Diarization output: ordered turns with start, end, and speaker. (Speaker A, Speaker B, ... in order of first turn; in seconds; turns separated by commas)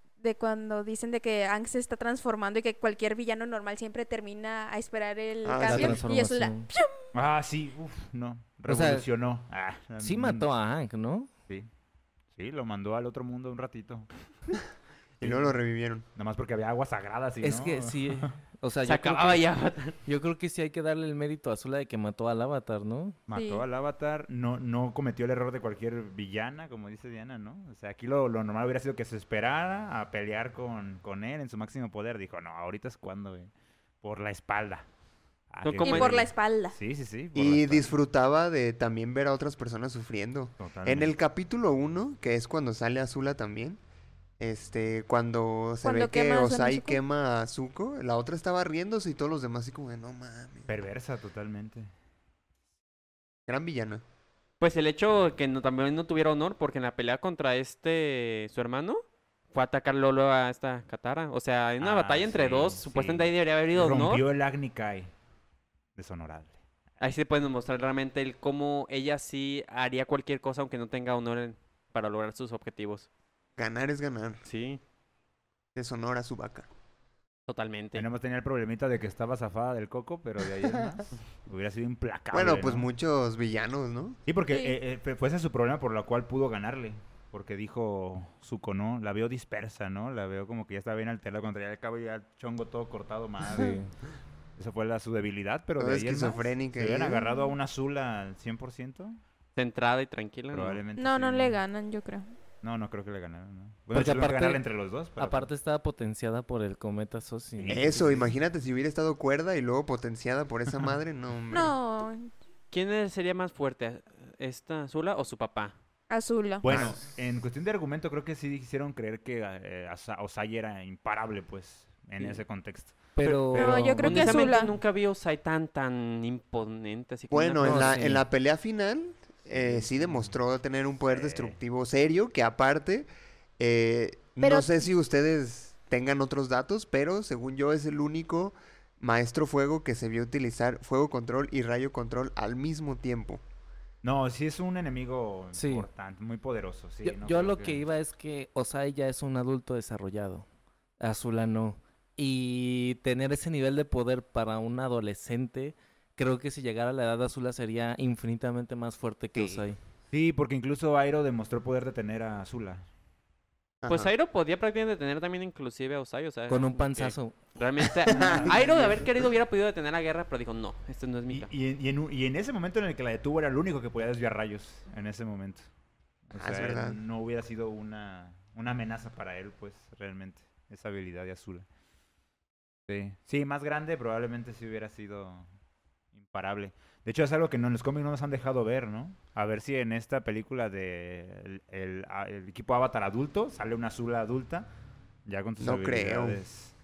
Speaker A: 0.2-6.9, Speaker B: 5.4-6.0, Speaker C: 5.6-6.7, Speaker D: 7.1-10.4, Speaker C: 8.7-9.1, Speaker C: 10.0-11.3, Speaker D: 12.3-14.1, Speaker B: 15.2-16.1, Speaker D: 15.2-15.6, Speaker D: 16.1-18.4, Speaker C: 17.4-19.4, Speaker E: 18.8-20.0, Speaker C: 20.0-23.1, Speaker D: 23.3-33.5, Speaker A: 23.3-23.6, Speaker D: 34.0-34.9, Speaker D: 35.5-37.9, Speaker E: 35.6-36.3, Speaker A: 35.8-36.8, Speaker B: 37.3-43.8, Speaker D: 40.6-41.1, Speaker B: 44.4-50.7, Speaker A: 45.8-47.0, Speaker D: 50.7-51.9, Speaker B: 53.5-54.0, Speaker E: 54.6-59.0, Speaker E: 59.5-64.2, Speaker D: 61.8-65.1, Speaker D: 65.9-66.6, Speaker E: 67.0-73.1, Speaker B: 73.6-74.4, Speaker E: 74.4-74.8, Speaker B: 75.7-76.7, Speaker E: 77.5-78.0, Speaker D: 77.9-82.9, Speaker B: 80.6-81.0, Speaker B: 82.3-84.2, Speaker D: 84.2-93.8, Speaker A: 84.5-84.8, Speaker C: 93.5-93.9, Speaker D: 94.6-99.2, Speaker B: 95.8-97.2, Speaker E: 99.5-100.8, Speaker D: 100.5-101.6, Speaker A: 101.0-102.3, Speaker D: 102.6-105.5, Speaker C: 103.9-104.6, Speaker C: 105.2-107.9, Speaker D: 107.6-108.3, Speaker B: 107.7-111.7, Speaker A: 111.5-112.3, Speaker E: 112.7-115.7, Speaker A: 116.1-116.7, Speaker D: 116.6-124.3, Speaker B: 116.7-117.0, Speaker C: 123.2-124.1, Speaker E: 123.2-128.0, Speaker A: 123.5-124.7, Speaker B: 127.3-133.1, Speaker C: 127.6-128.2, Speaker D: 129.5-130.3, Speaker D: 131.1-131.6, Speaker B: 133.6-143.4, Speaker A: 134.4-134.7, Speaker D: 144.0-147.8, Speaker C: 145.5-145.9, Speaker C: 147.0-150.5, Speaker C: 151.0-159.8, Speaker B: 159.3-159.6, Speaker D: 160.1-162.8, Speaker B: 163.8-164.1, Speaker E: 163.9-171.5, Speaker C: 166.5-167.4, Speaker D: 168.1-168.7, Speaker B: 168.1-169.1, Speaker D: 171.3-175.7, Speaker D: 176.3-181.7, Speaker B: 176.3-177.0, Speaker D: 182.9-185.5, Speaker D: 186.2-194.7, Speaker D: 195.2-196.7, Speaker B: 195.6-196.4